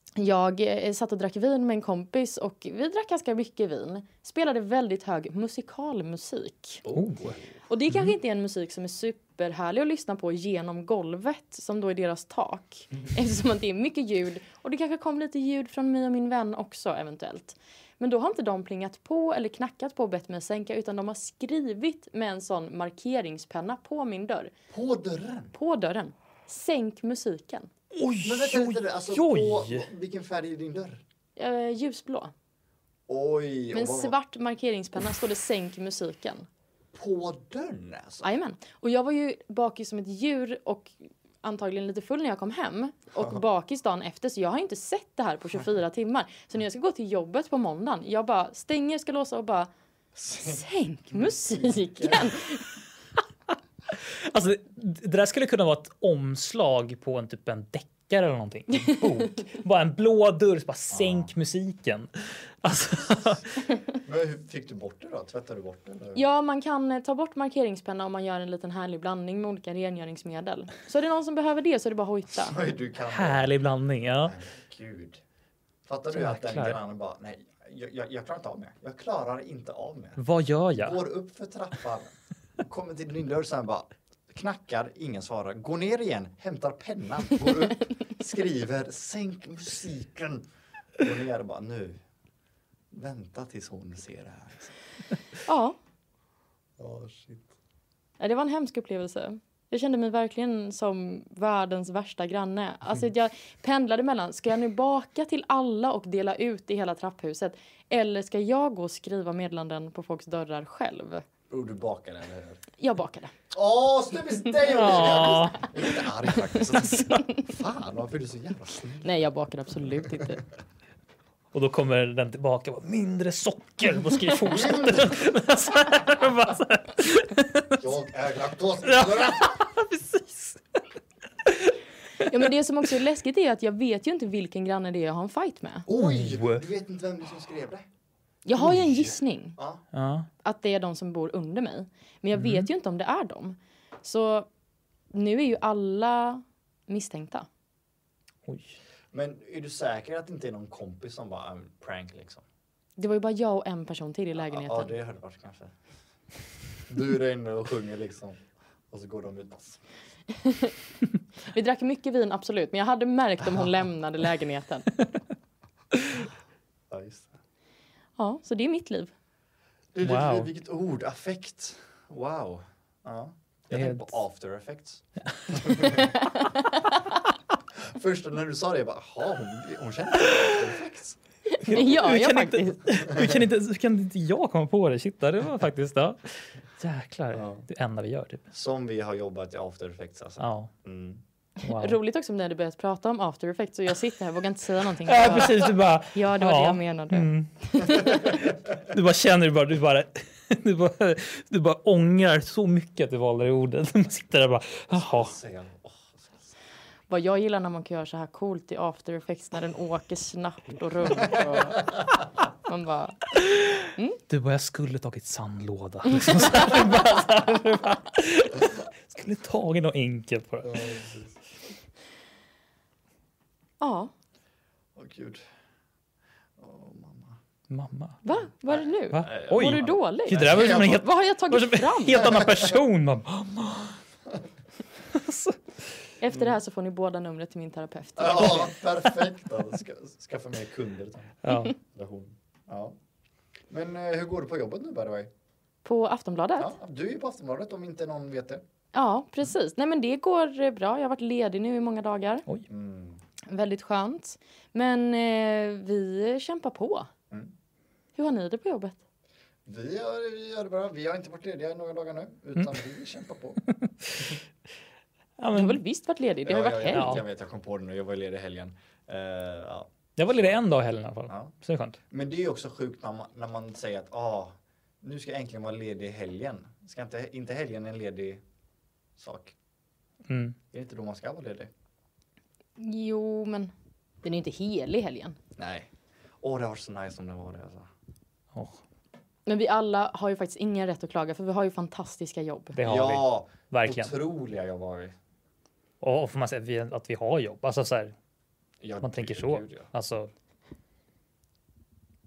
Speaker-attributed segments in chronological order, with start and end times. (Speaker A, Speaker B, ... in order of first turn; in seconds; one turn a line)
Speaker A: 0.2-6.8
Speaker B: 6.8-7.5
Speaker C: 6.9-7.3
Speaker A: 7.7-24.5
Speaker B: 24.7-25.5
Speaker A: 25.5-27.7
Speaker C: 27.9-29.9
Speaker B: 28.2-31.0
Speaker A: 31.4-32.3
Speaker B: 33.1-34.1
Speaker A: 33.7-36.5
Speaker B: 36.9-38.3
Speaker A: 38.2-49.7
Speaker B: 50.2-52.4
Speaker A: 50.3-52.7
Speaker C: 53.9-63.5
Speaker A: 58.7-59.4
Speaker B: 60.9-61.3
Speaker B: 64.0-66.2
Speaker A: 66.1-72.6
Speaker B: 72.4-73.5
Speaker C: 73.1-74.3
Speaker B: 74.2-75.2
Speaker B: 75.8-80.2
Speaker C: 76.1-76.8
Speaker C: 80.2-81.0
Speaker B: 80.7-90.4
Speaker B: 91.0-92.0
Speaker B: 92.9-94.7
Speaker A: 95.5-95.8
Speaker B: 96.8-97.5
Speaker A: 98.2-111.2
Speaker B: 111.5-112.6
Speaker A: 112.8-113.3
Speaker B: 113.5-119.1
Speaker C: 114.6-115.7
Speaker A: 114.8-115.5
Speaker C: 116.8-117.2
Speaker A: 117.0-117.2
Speaker A: 119.0-120.4
Speaker C: 121.5-127.9
Speaker B: 124.5-125.2
Speaker B: 127.8-129.6
Speaker C: 128.8-130.6
Speaker C: 131.4-132.5
Speaker A: 132.2-135.8
Speaker B: 135.8-137.8
Speaker C: 135.9-136.6
Speaker A: 138.4-139.6
Speaker B: 139.6-139.8
Speaker C: 139.9-140.3
Speaker A: 140.4-144.5
Speaker C: 142.3-142.7
Speaker A: 145.1-147.5
Speaker C: 148.4-148.8
Speaker B: 149.1-152.4
Speaker A: 153.0-154.9
Speaker B: 154.3-155.7
Speaker B: 156.9-159.8
Speaker A: 160.3-160.7
Speaker A: 161.5-164.9
Speaker C: 165.9-166.3
Speaker B: 166.9-167.3
Speaker A: 168.2-169.1
Speaker B: 169.9-176.2
Speaker C: 170.0-170.5
Speaker C: 173.7-174.2
Speaker C: 175.4-176.0
Speaker B: 177.8-181.2
Speaker C: 180.2-180.6
Speaker A: 181.5-182.9
Speaker C: 181.6-188.4
Speaker B: 183.1-183.3
Speaker B: 187.3-187.6
Speaker B: 188.5-191.2
Speaker C: 190.4-190.7
Speaker A: 191.6-198.5
Speaker C: 191.6-192.0
Speaker C: 195.0-197.5
Speaker C: 198.8-205.3
Speaker B: 204.9-206.5
Speaker A: 207.1-212.1
Speaker A: 212.7-213.3
Speaker C: 213.3-220.8
Speaker A: 216.1-216.5
Speaker B: 220.6-221.4
Speaker A: 223.8-224.1
Speaker B: 224.9-225.4
Speaker B: 226.6-227.4
Speaker C: 227.7-228.2
Speaker A: 228.2-232.4
Speaker B: 228.7-231.0
Speaker C: 229.1-234.0
Speaker B: 232.2-232.7
Speaker C: 235.1-235.9
Speaker A: 236.2-238.7
Speaker B: 238.2-241.4
Speaker C: 241.4-241.7
Speaker B: 241.9-242.9
Speaker B: 243.7-245.3
Speaker A: 245.8-246.7
Speaker B: 246.6-248.6
Speaker A: 248.9-252.5
Speaker B: 252.7-253.2
Speaker A: 253.5-257.1
Speaker A: 258.1-259.0
Speaker B: 259.6-263.6
Speaker C: 263.8-264.3
Speaker C: 265.4-265.8
Speaker A: 265.5-267.2
Speaker B: 266.4-270.6
Speaker C: 266.9-267.2
Speaker C: 270.2-272.0
Speaker B: 271.3-271.5
Speaker B: 272.1-278.4
Speaker B: 279.2-279.5
Speaker C: 280.3-280.6
Speaker B: 280.7-281.7
Speaker A: 282.8-283.7
Speaker A: 284.2-285.4
Speaker B: 285.6-287.9
Speaker C: 288.5-288.8
Speaker A: 289.4-292.7
Speaker C: 292.7-294.1
Speaker B: 292.8-295.1
Speaker C: 296.0-298.1
Speaker B: 298.8-299.9
Speaker C: 299.0-300.3